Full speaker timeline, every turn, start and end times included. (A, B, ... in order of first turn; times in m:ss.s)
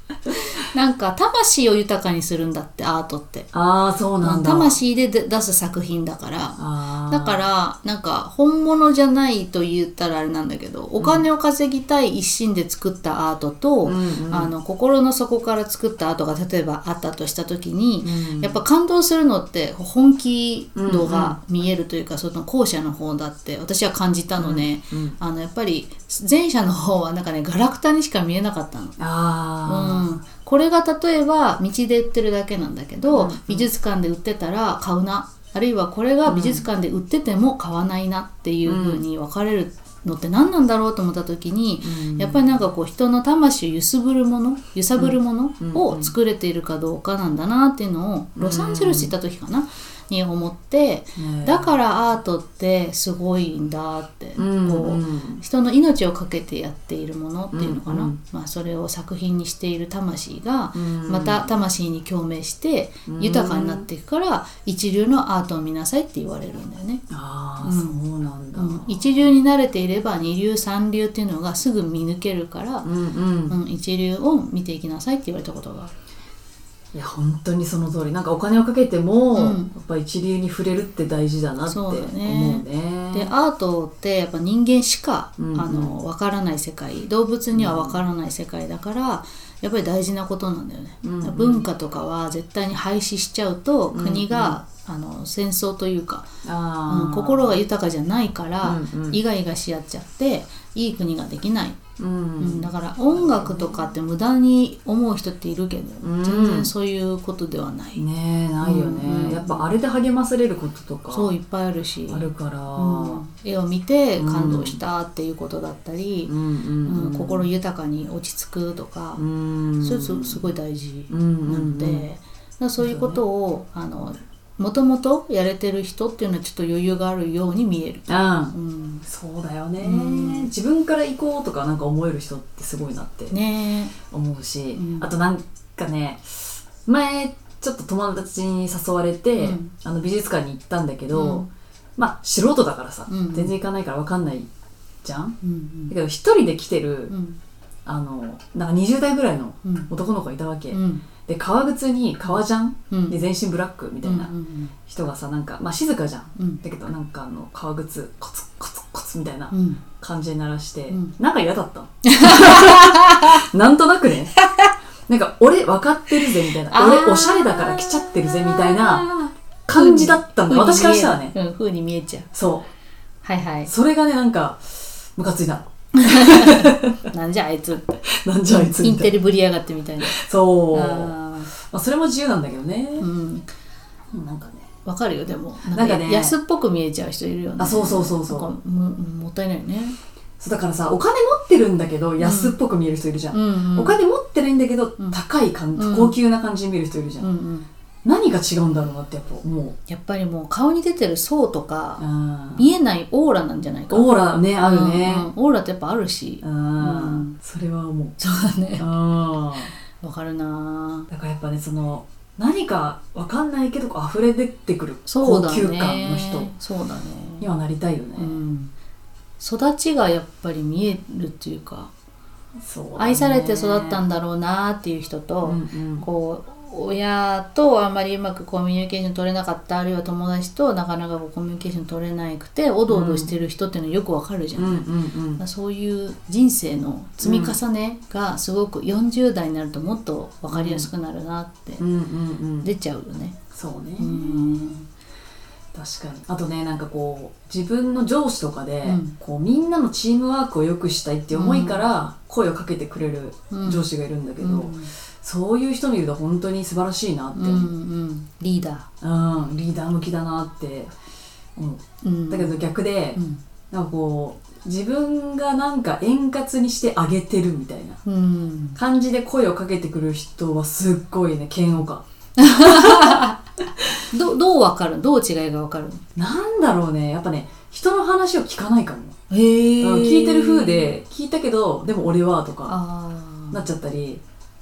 0:00.3-0:03.5 A
0:03.5-0:04.8 B
0:04.2-0:29.0 A
0:06.6-0:07.4 B
0:11.0-0:11.3 B
0:13.8-0:14.5 B
0:18.0-0:18.6 B
0:20.7-0:21.4 B
0:24.4-0:25.2 B
0:29.0-0:30.1 B
0:29.6-1:07.0 A
0:33.1-0:33.7 B
0:36.2-0:36.6 B
0:38.6-0:39.0 B
0:41.8-0:42.4 B
0:45.0-0:46.1 B
0:48.4-0:49.1 B
0:51.2-0:51.7 B
0:54.4-0:55.4 B
0:57.5-0:58.2 B
1:00.7-1:01.6 B
1:03.1-1:03.9 B
1:07.1-1:09.3 B
1:07.6-1:08.0 A
1:08.5-1:12.9 A
1:12.8-1:13.6 B
1:13.5-1:15.9 A
1:16.9-1:23.3 B
1:19.3-1:19.7 A
1:21.6-1:36.3 A
1:25.4-1:26.0 B
1:27.5-1:28.0 B
1:31.0-1:31.7 B
1:33.9-1:34.6 B
1:36.4-1:37.6 B
1:36.9-1:41.8 A
1:38.6-1:39.2 B
1:42.0-1:43.9 B
1:42.4-1:48.0 A
1:46.0-1:46.7 B
1:48.0-1:51.3 B
1:48.6-1:49.7 A
1:51.1-1:56.3 A
1:52.1-1:53.2 B
1:54.2-1:54.8 B
1:56.3-1:57.4 B
1:56.8-1:59.2 A
1:59.2-2:00.4 B
1:59.8-2:09.0 A
2:01.1-2:02.0 B
2:02.8-2:03.2 B
2:08.1-2:08.5 B
2:09.0-2:13.4 B
2:09.8-2:10.5 A
2:13.3-2:13.9 A
2:14.1-2:21.4 B
2:14.7-2:15.1 A
2:19.4-2:19.7 A
2:21.1-2:21.5 A
2:22.0-2:24.5 B
2:23.1-2:23.5 A
2:25.0-2:25.4 B
2:25.4-2:25.9 A
2:25.9-2:27.1 B
2:27.1-2:27.4 A
2:27.8-2:34.3 B
2:29.6-2:29.9 A
2:30.7-2:31.0 A
2:32.9-2:33.2 A
2:34.0-2:34.7 A
2:34.9-2:44.4 B
2:36.4-2:36.6 A
2:39.5-2:39.8 A
2:42.1-2:43.3 A
2:44.4-2:44.7 A
2:45.1-2:49.1 B
2:46.7-2:47.8 A
2:48.7-2:52.3 A
2:49.7-2:51.3 B
2:52.3-2:52.7 B
2:53.2-2:53.7 A
2:53.6-2:57.0 B
2:56.0-2:58.0 A
2:58.1-2:59.1 B
2:58.5-3:00.2 A
3:00.0-3:03.1 B
3:00.7-3:01.5 A
3:03.0-3:03.5 A
3:04.1-3:04.7 B
3:04.8-3:10.0 A
3:05.6-3:06.3 B
3:07.6-3:08.5 B
3:10.4-3:17.3 B
3:12.2-3:12.6 A
3:13.3-3:14.0 A
3:15.8-3:16.2 A
3:17.2-3:17.7 A
3:18.0-3:19.8 B
3:19.9-3:22.0 A
3:22.0-3:22.6 B
3:22.6-3:27.3 A
3:23.9-3:25.3 B
3:26.4-3:28.2 B
3:28.2-3:28.8 A
3:28.8-3:29.7 B
3:29.9-3:31.1 A
3:31.1-3:36.5 B
3:35.1-3:37.5 A
3:37.4-3:38.4 B
3:38.2-3:38.7 A
3:39.4-3:41.9 A
3:42.6-3:44.0 B
3:43.0-4:01.8 A
3:45.4-3:46.0 B
3:52.9-3:53.3 B
3:54.6-3:55.4 B
3:57.2-3:57.6 B
4:00.5-4:00.9 B
4:01.8-4:02.7 B
4:02.6-4:03.4 A
4:03.5-4:04.6 B
4:04.0-4:04.9 A
4:05.7-4:17.7 B
4:08.8-4:09.1 A
4:11.3-4:11.9 A
4:13.5-4:13.8 A
4:14.4-4:14.9 A
4:17.3-4:18.9 A
4:19.0-4:20.9 B
4:21.6-4:23.2 B
4:22.0-4:23.4 A
4:23.7-4:28.0 B
4:28.0-4:28.8 A
4:28.8-4:33.2 B
4:32.4-4:33.4 A
4:34.1-4:36.0 A
4:36.2-4:39.2 B
4:39.3-4:40.9 A
4:39.8-4:42.8 B
4:42.7-4:43.6 A
4:43.5-4:44.2 B